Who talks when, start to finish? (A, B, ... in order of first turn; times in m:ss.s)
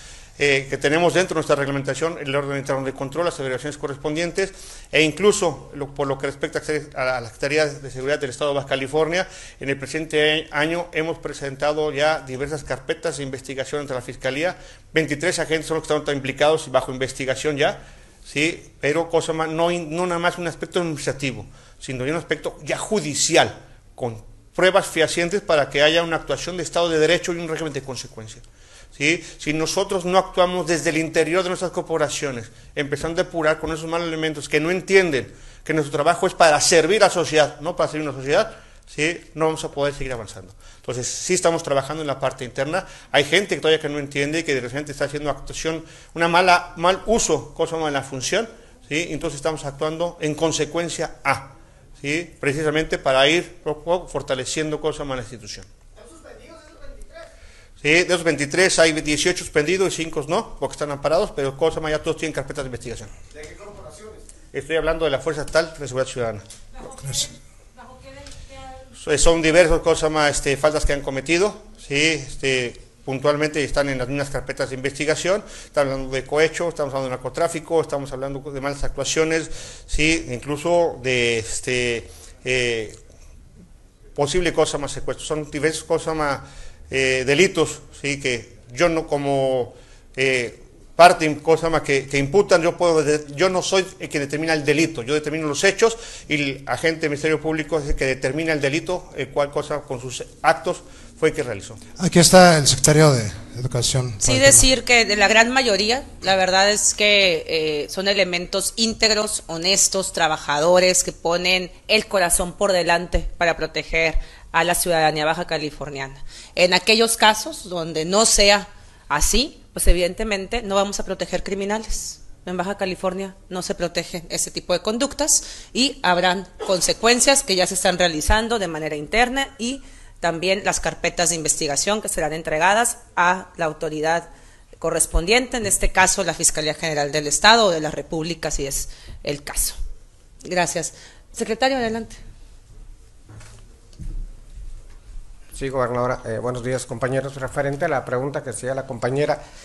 0:00.4-0:28.4 A
0:29.0-0:55.7 A
0:57.8-1:03.1 A
1:04.5-1:06.4 A
1:06.9-1:07.3 B
1:09.0-1:23.0 A
1:24.2-1:41.8 A
1:42.0-1:44.7 B
1:44.2-2:14.3 C
2:14.8-2:19.8 C
2:20.4-2:22.2 C
2:25.6-2:29.4 D